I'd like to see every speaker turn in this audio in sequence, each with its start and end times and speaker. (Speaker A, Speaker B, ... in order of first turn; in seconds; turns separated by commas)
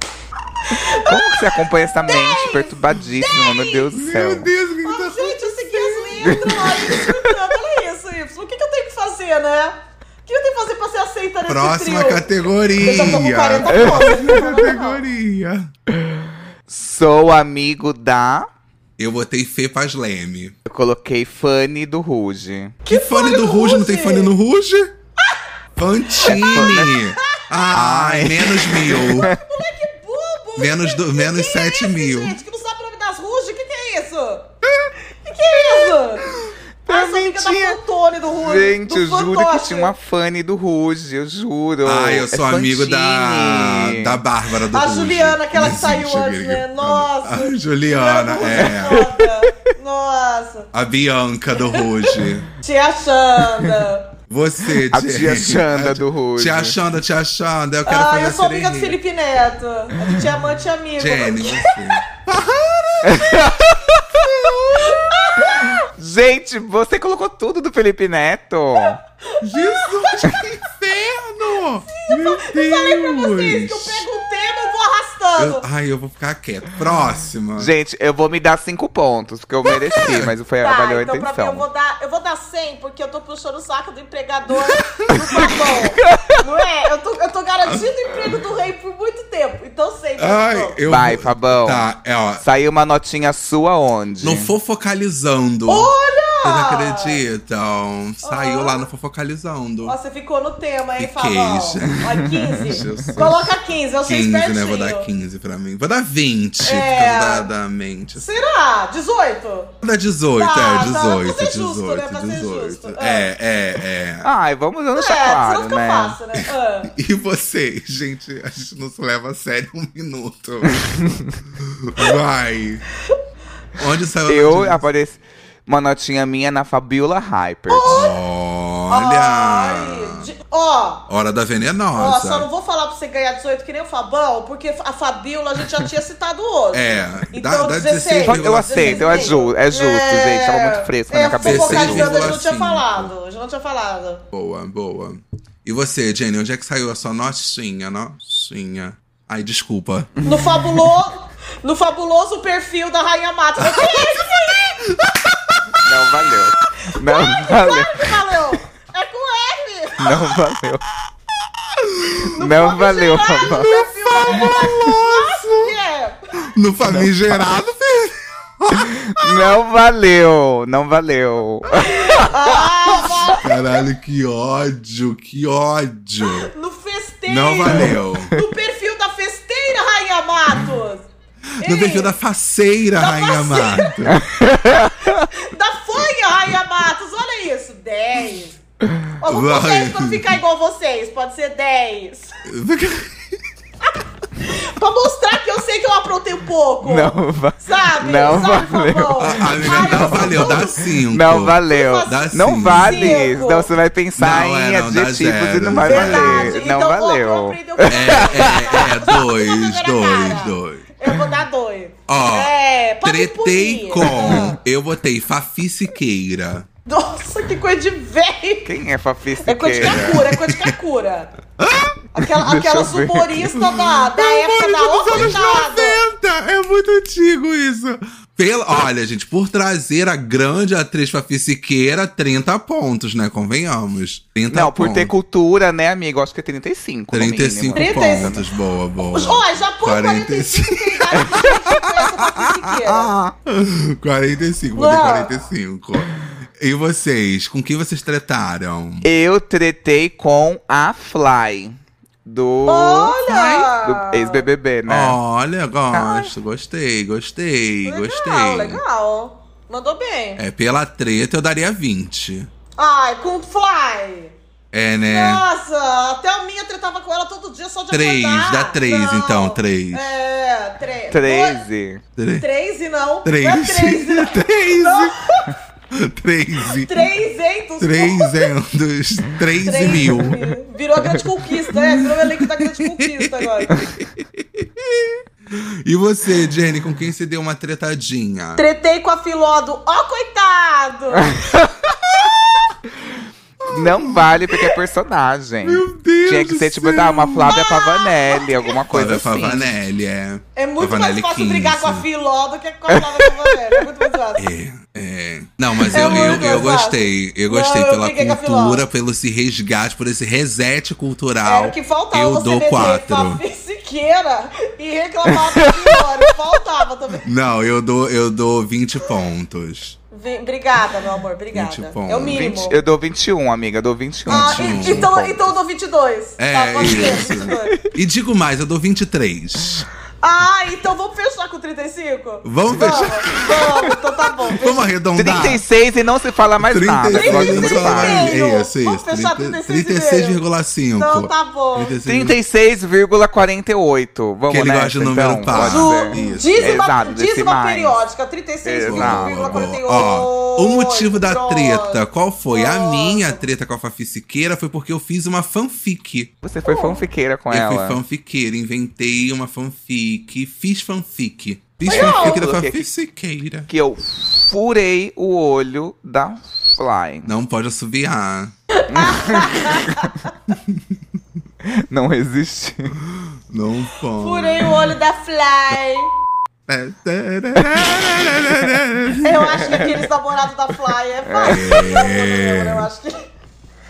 Speaker A: 0.7-1.4, Speaker B: 0.8-4.5, Speaker A: 2.1-3.8, Speaker C: 4.0-7.0, Speaker A: 4.8-12.3, Speaker C: 11.5-15.7, Speaker A: 12.8-15.0, Speaker B: 13.7-14.7, Speaker B: 15.9-18.5, Speaker C: 19.0-20.6, Speaker B: 20.7-22.8, Speaker A: 22.9-24.3, Speaker C: 22.9-24.9, Speaker C: 25.8-29.3, Speaker A: 26.2-26.6, Speaker B: 26.3-27.0, Speaker A: 27.1-27.4, Speaker B: 27.7-29.4, Speaker A: 29.0-34.5, Speaker C: 30.6-32.4, Speaker C: 34.6-34.9, Speaker A: 35.0-36.3, Speaker B: 36.9-37.8, Speaker A: 36.9-39.9, Speaker B: 38.4-44.2, Speaker C: 41.9-49.1, Speaker A: 44.7-50.7, Speaker B: 48.5-49.5, Speaker C: 50.7-52.5, Speaker A: 51.5-54.1, Speaker C: 54.3-59.0, Speaker B: 54.9-56.8, Speaker A: 57.9-62.0, Speaker C: 61.0-63.6, Speaker B: 63.0-64.6, Speaker C: 64.2-64.8, Speaker A: 64.8-65.8, Speaker B: 65.4-69.0, Speaker A: 69.4-70.1, Speaker C: 69.4-74.0, Speaker A: 72.0-75.7, Speaker C: 75.4-77.7, Speaker B: 77.6-81.7, Speaker C: 80.0-80.3, Speaker A: 80.6-90.8, Speaker C: 84.8-85.5, Speaker B: 85.3-85.6, Speaker C: 90.2-92.4, Speaker B: 90.9-91.9, Speaker B: 92.4-94.5, Speaker C: 94.2-95.9, Speaker A: 95.7-97.2, Speaker C: 96.4-100.0, Speaker A: 98.2-98.8, Speaker A: 99.8-105.1, Speaker C: 101.0-103.5, Speaker B: 102.7-103.1, Speaker C: 104.1-108.3, Speaker A: 106.6-107.5, Speaker A: 108.2-109.8, Speaker C: 109.8-114.3, Speaker A: 110.4-113.3, Speaker B: 114.2-116.2, Speaker A: 115.0-116.9, Speaker C: 116.4-121.0, Speaker C: 121.5-122.8, Speaker C: 123.8-124.8, Speaker B: 124.3-128.1, Speaker A: 127.7-128.1, Speaker C: 127.9-130.3, Speaker A: 128.9-131.1, Speaker C: 131.1-132.5, Speaker A: 131.9-144.2, Speaker C: 136.7-139.4, Speaker B: 138.2-142.3, Speaker C: 141.3-143.1, Speaker C: 144.3-150.1, Speaker A: 150.2-154.8, Speaker C: 153.7-154.3, Speaker C: 154.9-155.8, Speaker B: 155.8-158.2, Speaker A: 156.9-160.3, Speaker B: 160.0-160.9, Speaker C: 161.7-162.3, Speaker A: 162.3-166.2, Speaker B: 162.4-163.9, Speaker C: 163.7-165.7, Speaker C: 166.5-169.6, Speaker B: 168.8-173.3, Speaker A: 171.8-173.7, Speaker C: 173.4-176.5, Speaker A: 176.2-181.1, Speaker C: 177.3-178.3, Speaker A: 181.6-182.2, Speaker C: 181.6-184.2, Speaker A: 183.0-184.2, Speaker B: 184.1-185.3, Speaker A: 185.1-188.6, Speaker A: 189.2-192.4, Speaker C: 189.3-190.4, Speaker C: 192.5-193.4, Speaker A: 194.4-201.0, Speaker B: 196.8-208.9, Speaker C: 199.2-203.3, Speaker A: 201.7-203.7, Speaker C: 204.2-206.6, Speaker A: 205.8-214.6, Speaker C: 207.9-210.8, Speaker C: 212.1-212.5, Speaker C: 213.0-216.7, Speaker B: 214.0-214.5, Speaker A: 216.9-218.7, Speaker B: 218.7-220.3, Speaker A: 219.4-221.3, Speaker C: 219.8-220.7, Speaker C: 221.6-222.0, Speaker A: 222.2-226.0, Speaker B: 222.4-223.5, Speaker C: 223.7-235.1, Speaker B: 234.5-238.5, Speaker C: 237.1-249.1, Speaker A: 237.7-238.4, Speaker A: 239.0-243.1, Speaker A: 244.8-245.3, Speaker B: 249.0-253.3, Speaker A: 252.7-254.4, Speaker C: 253.3-253.7, Speaker B: 253.8-255.2, Speaker C: 254.9-258.8, Speaker B: 255.9-256.3, Speaker A: 257.9-260.4, Speaker C: 260.4-262.5, Speaker A: 262.8-264.4, Speaker C: 264.7-265.4, Speaker A: 265.1-271.6, Speaker C: 267.9-270.2, Speaker B: 271.1-272.0, Speaker C: 272.2-272.4, Speaker A: 272.4-275.6, Speaker C: 273.2-275.2, Speaker C: 275.9-277.1, Speaker A: 276.8-278.5, Speaker C: 277.8-280.5, Speaker A: 279.6-283.8, Speaker C: 281.7-288.6, Speaker A: 288.6-291.4, Speaker B: 291.2-291.9, Speaker C: 293.6-294.8, Speaker B: 293.7-299.7, Speaker C: 295.6-297.6, Speaker A: 297.5-298.5, Speaker C: 298.9-302.1, Speaker A: 300.6-304.5, Speaker B: 302.9-303.8, Speaker C: 304.4-313.4, Speaker B: 305.9-306.7, Speaker A: 305.9-308.9, Speaker A: 311.4-317.3, Speaker C: 317.2-320.0, Speaker A: 320.1-322.8, Speaker C: 321.5-322.5, Speaker B: 322.3-325.6, Speaker C: 324.3-325.1, Speaker A: 324.3-327.8, Speaker C: 326.4-329.9, Speaker B: 326.8-327.8, Speaker A: 330.2-334.9, Speaker C: 332.4-333.9, Speaker C: 334.5-335.6, Speaker B: 335.1-338.4, Speaker C: 336.6-342.4, Speaker A: 337.1-340.4, Speaker A: 341.0-341.9, Speaker B: 342.1-348.0, Speaker C: 344.5-346.8, Speaker A: 345.6-353.4, Speaker B: 348.6-349.7, Speaker C: 348.9-356.3, Speaker B: 356.4-358.0, Speaker A: 356.6-357.0, Speaker C: 357.5-363.7, Speaker A: 361.9-362.4, Speaker B: 361.9-362.9, Speaker B: 363.7-367.3, Speaker C: 367.3-368.5, Speaker A: 368.7-370.2, Speaker B: 368.9-370.1, Speaker B: 371.6-373.0, Speaker C: 373.0-374.7, Speaker A: 374.2-376.1, Speaker C: 376.7-379.6, Speaker B: 378.4-378.6, Speaker A: 379.2-383.3, Speaker B: 379.5-380.1, Speaker B: 381.3-381.8, Speaker C: 381.4-382.9